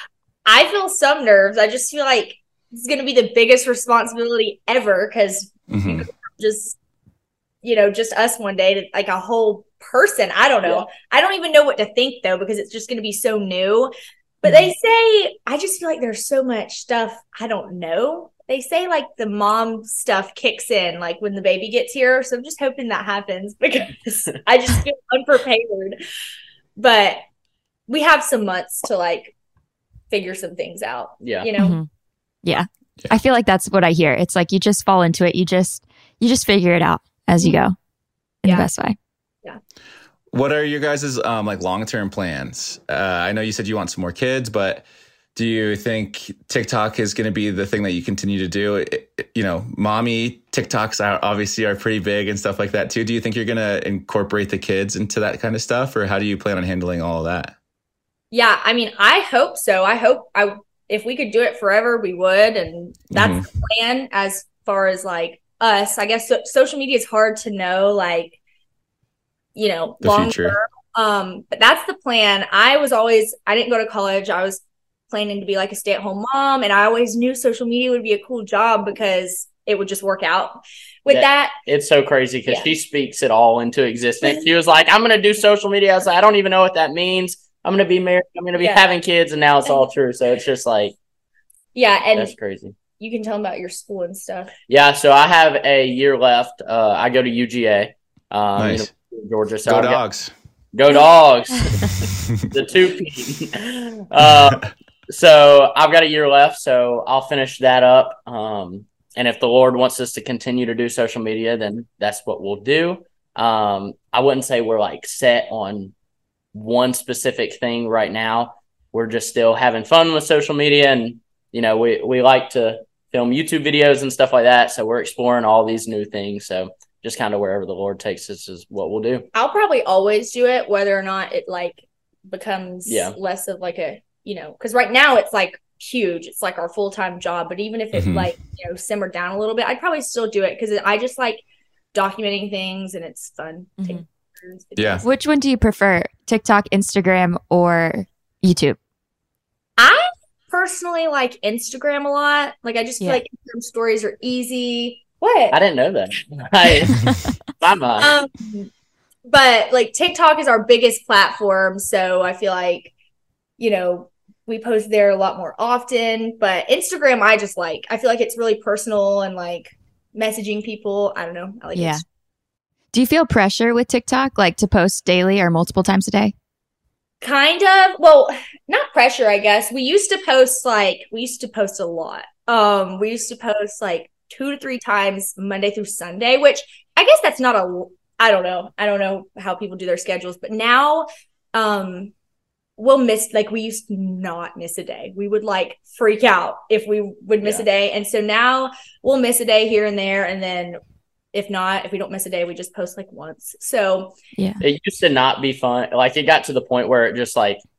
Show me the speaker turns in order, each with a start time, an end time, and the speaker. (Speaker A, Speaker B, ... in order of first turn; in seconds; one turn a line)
Speaker A: 0.5-6.8
Speaker B: 5.7-6.0
Speaker A: 7.6-13.9
Speaker C: 10.6-10.9
Speaker A: 14.4-26.0
Speaker A: 26.8-27.2
Speaker A: 27.9-29.3
Speaker A: 30.1-31.8
Speaker C: 31.2-31.5
Speaker D: 31.6-31.9
Speaker D: 32.4-37.8
Speaker D: 38.4-39.0
Speaker B: 40.3-57.5
Speaker A: 58.3-68.4
Speaker B: 63.1-63.4
Speaker A: 69.5-81.5
Speaker B: 70.0-70.5
Speaker C: 81.1-90.9
Speaker A: 82.5-82.7
Speaker A: 88.5-88.8
Speaker A: 91.7-92.3
Speaker C: 92.1-92.7
Speaker A: 93.0-94.5
Speaker C: 94.7-100.0
Speaker B: 98.6-98.9
Speaker B: 99.7-100.3
Speaker C: 100.7-115.9
Speaker C: 116.5-129.2
Speaker A: 129.3-141.4
Speaker C: 132.8-133.2
Speaker B: 137.9-138.3
Speaker A: 141.9-145.1
Speaker B: 144.8-145.0
Speaker D: 145.0-148.8
Speaker A: 149.8-155.6
Speaker C: 155.5-158.1
Speaker A: 158.0-158.7
Speaker A: 159.3-162.9
Speaker A: 163.6-172.0
Speaker D: 171.7-172.0
Speaker D: 172.9-176.3
Speaker A: 177.2-192.1
Speaker A: 192.8-200.8
Speaker A: 201.3-204.2
Speaker C: 204.6-207.6